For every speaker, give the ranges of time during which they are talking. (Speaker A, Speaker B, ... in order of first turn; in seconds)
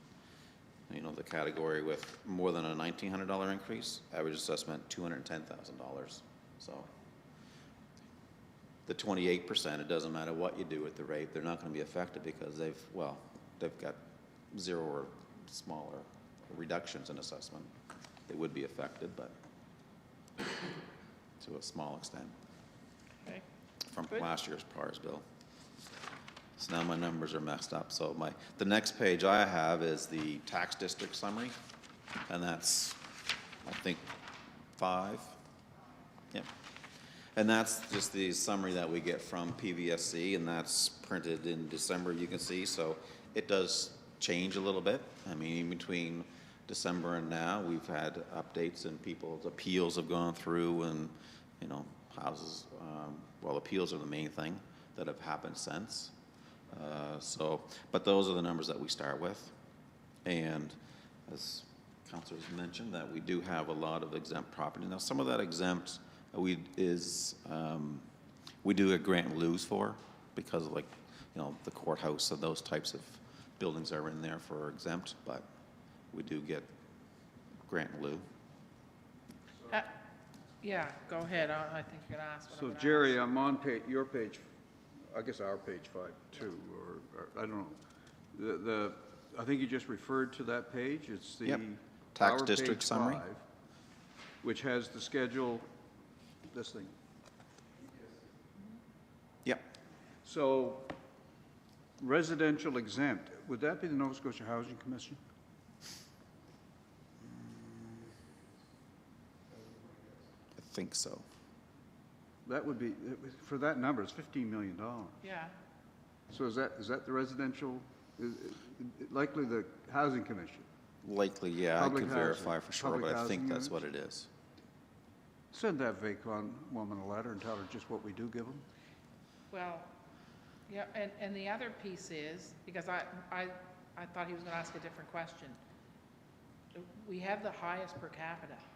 Speaker A: 0.9-6.9, 8.9-14.0, 14.5-17.7, 18.3-19.3, 21.4-22.4, 23.9-25.2, 26.6-31.6, 32.3-33.0, 33.6-34.1, 34.8-35.4, 37.4-56.1, 56.7-59.5, 60.2-68.1, 68.6-75.5, 76.1-76.7, 77.7-78.3, 92.1-93.2, 107.3-108.1, 110.6-111.2, 121.0-124.3
Speaker B: 80.6-83.2, 115.2-115.6, 129.5-129.9, 130.7-135.6, 136.7-138.6
Speaker C: 82.5-84.4, 85.1-87.8, 88.3-93.4, 94.4-95.6, 96.5-96.9, 100.2-100.9, 102.0-105.2, 112.5-115.2, 116.3-120.7, 121.8-123.8, 125.5-128.6